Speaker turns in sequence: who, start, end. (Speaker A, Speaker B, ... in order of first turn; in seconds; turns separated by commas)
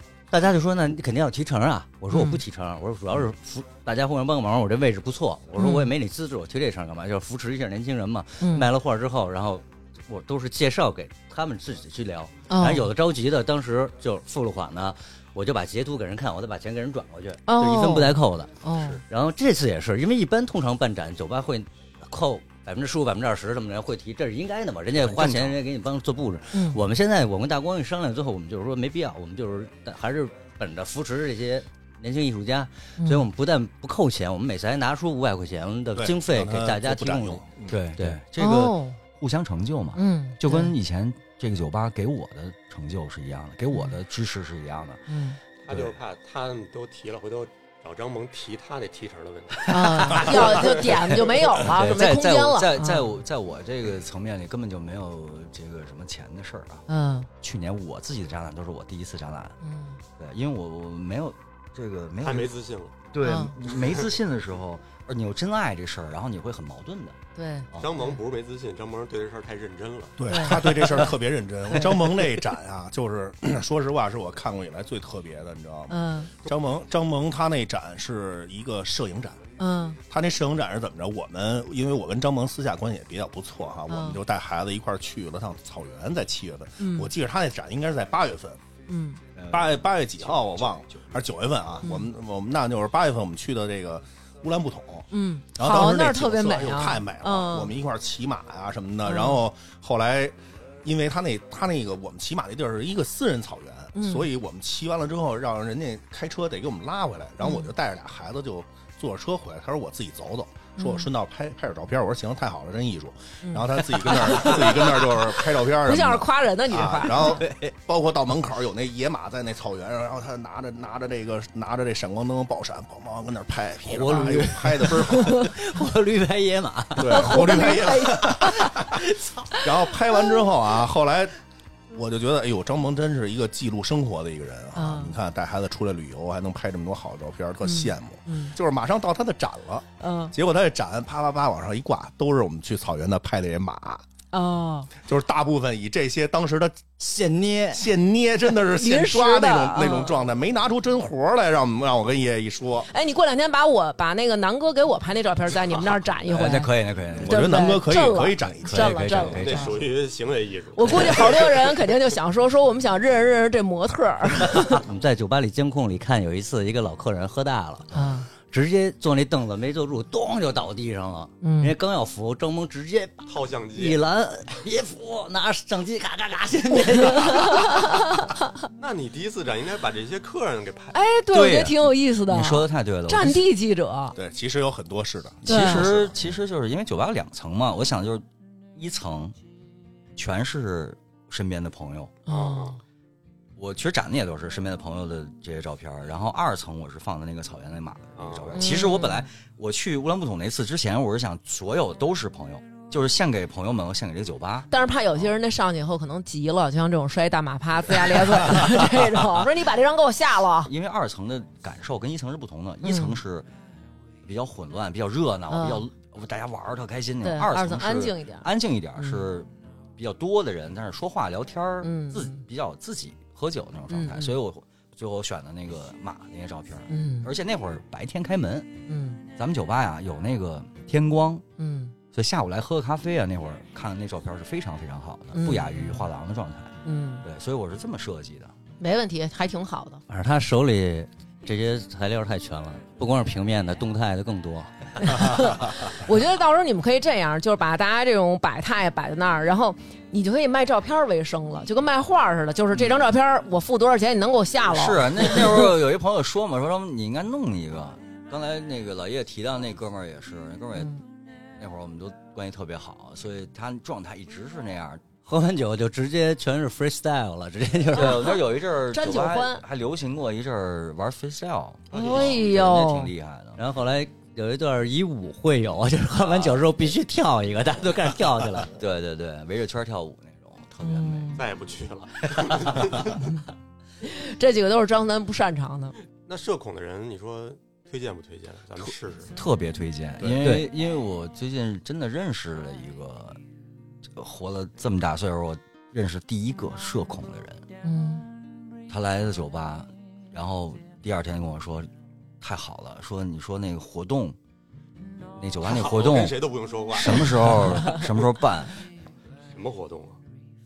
Speaker A: 0.3-18.6, Speaker B: 2.1-2.4, Speaker B: 5.6-5.9, Speaker B: 8.4-8.7, Speaker B: 12.5-12.9, Speaker B: 17.5-19.0, Speaker A: 19.1-37.5, Speaker C: 25.0-25.6, Speaker B: 26.5-26.8, Speaker D: 36.0-37.8, Speaker C: 37.7-45.0, Speaker B: 38.4-39.0, Speaker B: 40.0-40.7, Speaker B: 45.1-45.4, Speaker E: 45.6-51.4, Speaker C: 45.7-45.9, Speaker C: 49.6-50.6, Speaker B: 49.7-53.1, Speaker C: 51.4-56.9, Speaker B: 56.9-57.3, Speaker C: 57.4-59.6, Speaker B: 59.6-60.0, Speaker C: 60.2-62.6, Speaker E: 62.2-63.0, Speaker C: 63.1-67.2, Speaker B: 63.2-63.5, Speaker E: 63.7-64.1, Speaker B: 67.4-68.1, Speaker C: 67.7-68.0, Speaker E: 67.8-70.4, Speaker D: 70.2-79.4, Speaker B: 70.3-70.7, Speaker B: 75.9-76.3, Speaker B: 79.6-80.0, Speaker D: 80.1-88.6, Speaker B: 83.9-84.2, Speaker B: 86.8-87.1, Speaker B: 88.9-89.2, Speaker C: 89.3-91.2, Speaker D: 89.5-125.5, Speaker B: 91.8-92.1, Speaker B: 95.1-97.7, Speaker B: 99.0-99.4, Speaker B: 104.0-104.3, Speaker B: 107.4-107.7, Speaker B: 110.8-111.1, Speaker B: 113.4-115.1, Speaker B: 115.7-117.4, Speaker A: 123.9-129.6, Speaker B: 125.1-125.5, Speaker D: 127.0-129.1, Speaker B: 127.0-128.7, Speaker D: 129.6-131.3, Speaker D: 131.9-144.0, Speaker B: 134.8-135.1, Speaker B: 137.6-138.6, Speaker B: 140.0-140.3, Speaker B: 144.3-144.9, Speaker D: 145.0-146.8, Speaker A: 147.0-147.9, Speaker D: 147.7-152.9, Speaker B: 148.7-150.2, Speaker B: 152.9-156.7, Speaker C: 156.3-157.4, Speaker D: 157.2-159.4, Speaker B: 157.2-159.8, Speaker C: 158.7-159.8, Speaker E: 159.3-161.8, Speaker B: 160.8-164.8, Speaker A: 164.7-178.1, Speaker B: 167.9-168.3, Speaker B: 171.4-171.7, Speaker E: 173.3-174.0, Speaker B: 177.1-178.4, Speaker E: 178.8-181.0, Speaker B: 180.9-184.2, Speaker C: 181.3-183.5, Speaker D: 184.2-186.1, Speaker C: 185.4-189.4, Speaker B: 185.5-185.9, Speaker C: 190.2-192.2, Speaker E: 192.3-192.8, Speaker B: 192.3-192.8, Speaker C: 193.6-204.7, Speaker E: 198.2-198.7, Speaker B: 198.5-199.2, Speaker B: 204.7-210.7, Speaker C: 210.6-213.5, Speaker B: 212.8-213.2, Speaker C: 214.2-228.7, Speaker B: 215.5-215.8, Speaker B: 217.2-219.3, Speaker B: 221.8-222.4, Speaker B: 223.9-224.4, Speaker B: 226.9-227.3, Speaker B: 228.9-229.2, Speaker C: 229.4-231.4, Speaker B: 231.6-231.9, Speaker C: 232.1-238.5, Speaker B: 235.3-236.1, Speaker B: 236.8-237.2, Speaker B: 238.8-240.0, Speaker A: 240.1-245.6, Speaker B: 245.0-255.7, Speaker C: 254.7-260.9, Speaker B: 260.8-261.0, Speaker C: 261.6-265.0, Speaker A: 265.3-268.4, Speaker C: 267.9-273.6, Speaker B: 268.0-268.4, Speaker B: 268.9-269.6, Speaker E: 271.9-272.4, Speaker B: 271.9-273.1, Speaker A: 273.6-278.7, Speaker C: 278.7-281.3, Speaker B: 280.8-281.4, Speaker E: 281.4-283.2, Speaker C: 282.3-283.0, Speaker B: 284.0-285.9, Speaker E: 286.3-289.3, Speaker C: 288.8-293.4, Speaker A: 290.4-290.7, Speaker C: 294.1-297.6, Speaker B: 297.8-298.2, Speaker C: 298.9-301.9, Speaker C: 302.4-304.4, Speaker C: 305.4-308.8, Speaker E: 305.6-308.1, Speaker E: 309.5-310.2